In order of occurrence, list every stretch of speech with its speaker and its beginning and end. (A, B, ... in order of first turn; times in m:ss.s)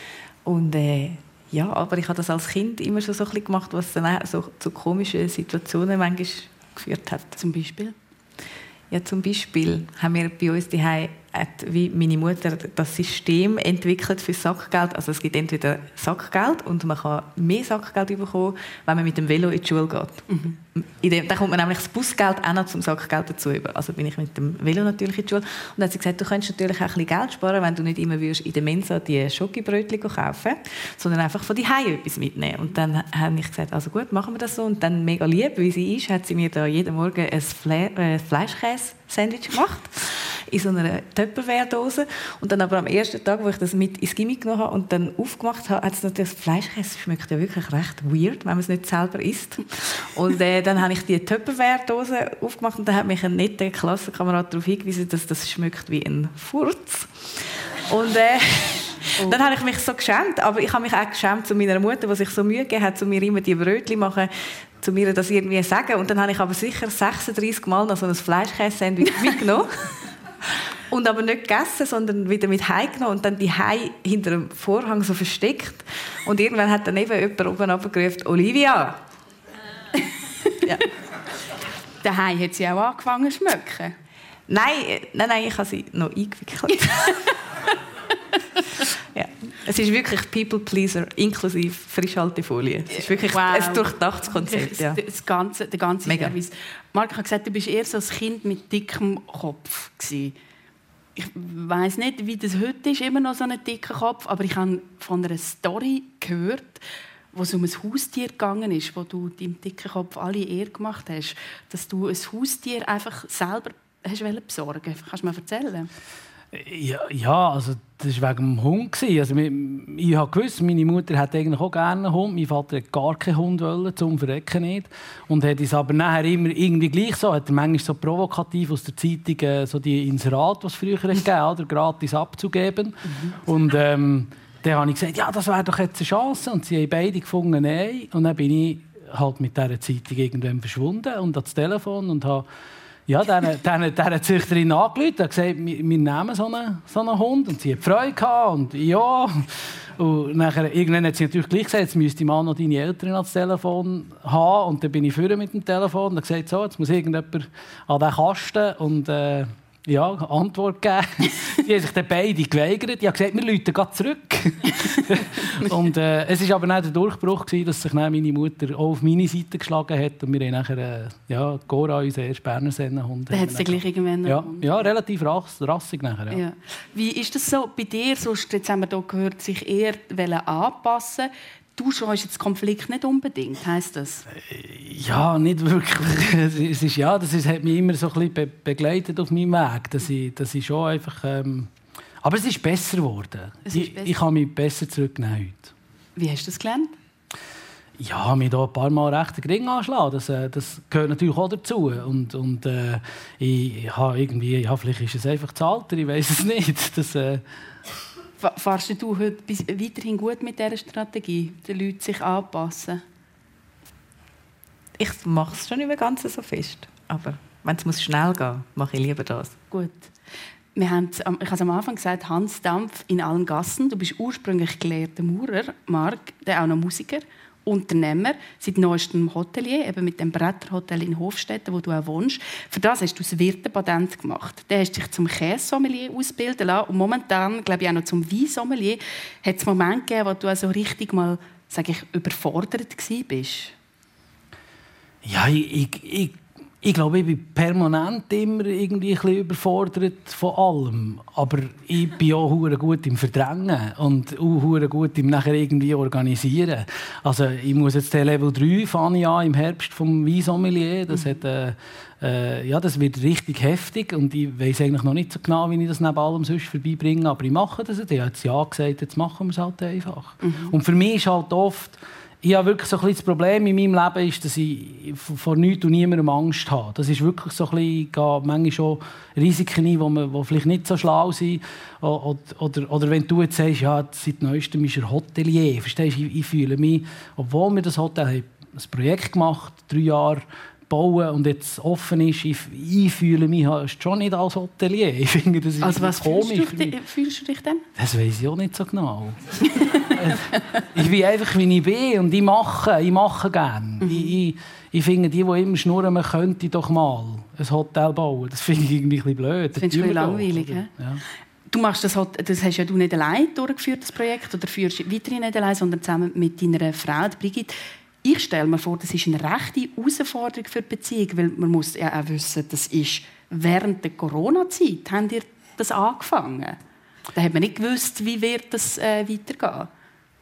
0:00.4-0:07.4 A
0:07.4-0:07.9 B
0:08.9-1:10.0 A
0:20.3-0:20.6 B
1:10.9-1:19.0 A
1:22.0-1:23.9 B
1:24.5-1:27.2 A
1:28.9-1:35.0 A
1:32.9-1:40.3 B
1:36.0-1:36.3 A
1:41.2-1:55.9 B
1:56.5-2:22.4 C
2:23.1-2:56.4 C
2:53.3-2:54.8 B
2:56.3-3:04.2 B
3:04.3-3:11.7 C
3:12.2-3:15.7 C
3:13.7-3:14.1 B
3:16.2-3:16.9 B
3:18.0-3:27.4 C
3:28.4-3:33.0 B
3:35.0-3:39.6 A
3:39.7-3:40.1 B
3:40.8-4:03.7 B
4:05.2-4:57.0 C
4:30.4-4:30.7 B
4:55.8-4:57.8 B
4:58.0-5:11.2 C
4:59.8-5:00.2 B
5:04.0-5:04.3 B
5:09.8-5:10.9 B
5:11.7-5:26.8 B
5:27.3-5:29.9 B